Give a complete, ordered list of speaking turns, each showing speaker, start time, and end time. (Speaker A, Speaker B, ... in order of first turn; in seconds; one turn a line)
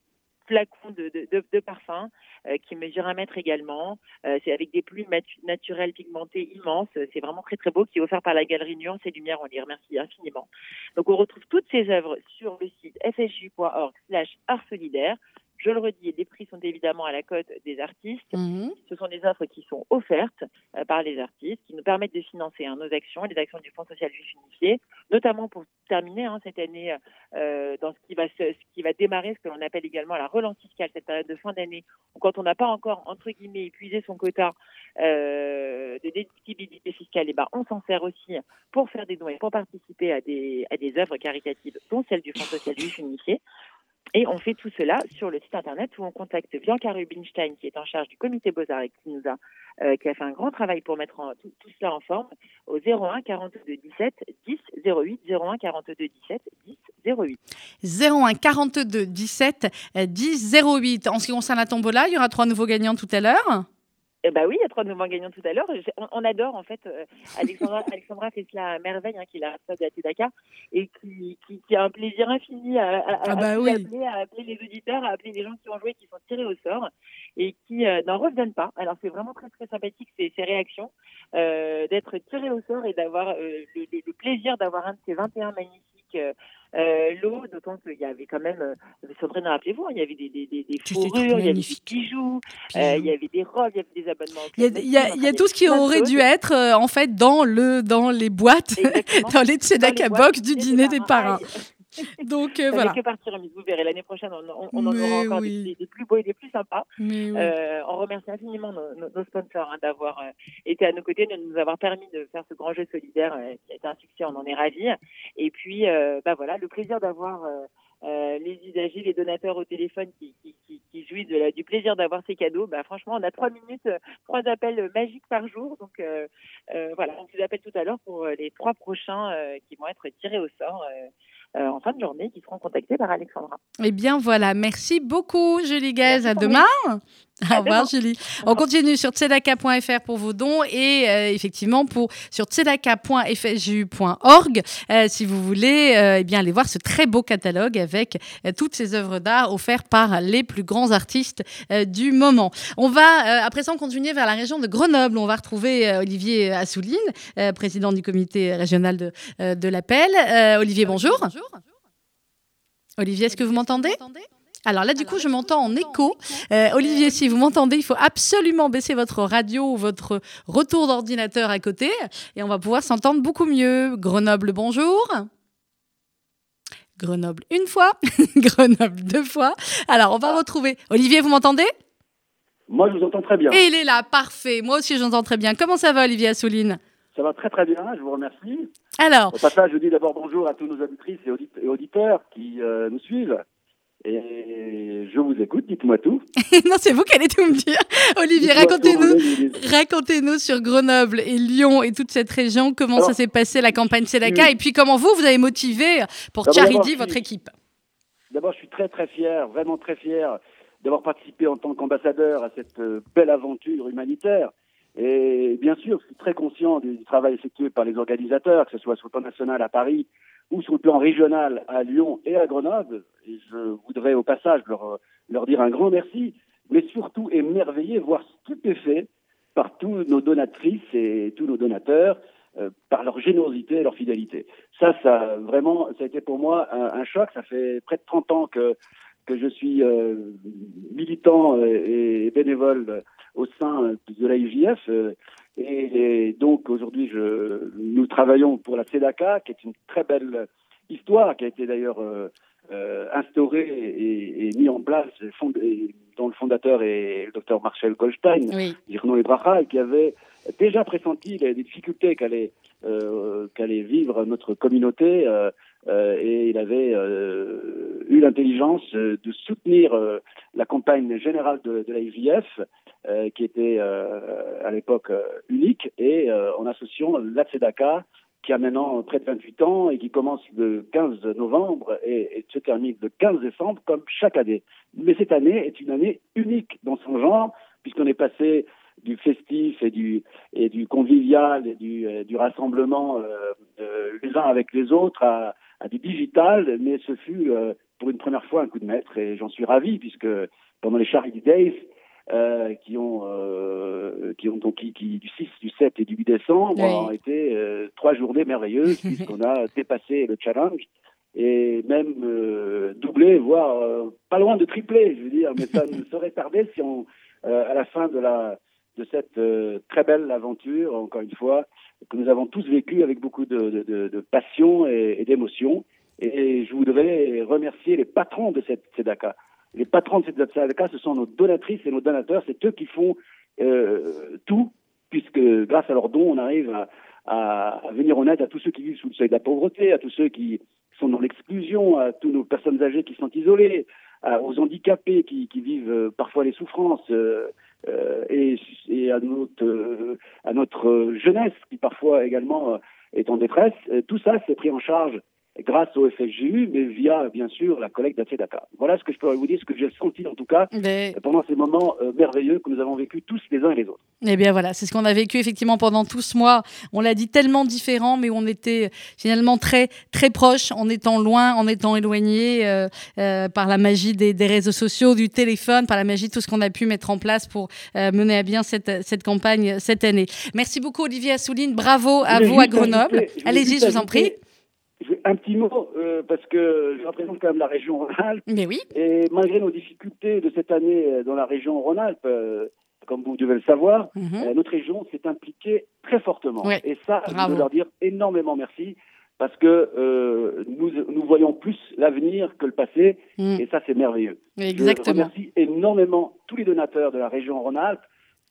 Speaker A: 0.5-43.4
Speaker B: 18.3-18.7
Speaker A: 44.1-57.4
Speaker B: 57.8-63.6
Speaker A: 64.2-96.2
Speaker B: 73.3-73.9
Speaker B: 90.9-91.9
Speaker B: 92.7-93.1
Speaker B: 94.6-101.4
Speaker A: 98.8-101.5
Speaker B: 102.2-103.0
Speaker A: 102.7-133.6
Speaker B: 104.7-105.7
Speaker B: 107.0-107.5
Speaker B: 133.8-161.3
Speaker A: 136.1-136.7
Speaker A: 137.5-137.9
Speaker B: 163.0-164.0
Speaker B: 164.7-175.3
Speaker A: 166.8-167.1
Speaker B: 177.0-181.7
Speaker C: 182.7-183.6
Speaker B: 183.5-186.8
Speaker C: 187.1-188.7
Speaker B: 189.0-189.4
Speaker C: 189.3-193.4
Speaker C: 194.0-196.2
Speaker B: 196.5-207.5
Speaker C: 198.4-199.6
Speaker C: 204.2-204.5
Speaker C: 206.4-207.2
Speaker C: 208.3-238.7
Speaker C: 239.3-364.0
Speaker B: 258.5-258.8
Speaker B: 306.8-307.1
Speaker B: 360.7-361.1
Speaker B: 364.2-384.3
Speaker C: 382.3-384.4
Speaker C: 385.0-408.0
Speaker B: 388.5-388.8
Speaker B: 394.1-394.5
Speaker B: 396.6-397.7
Speaker B: 404.6-405.3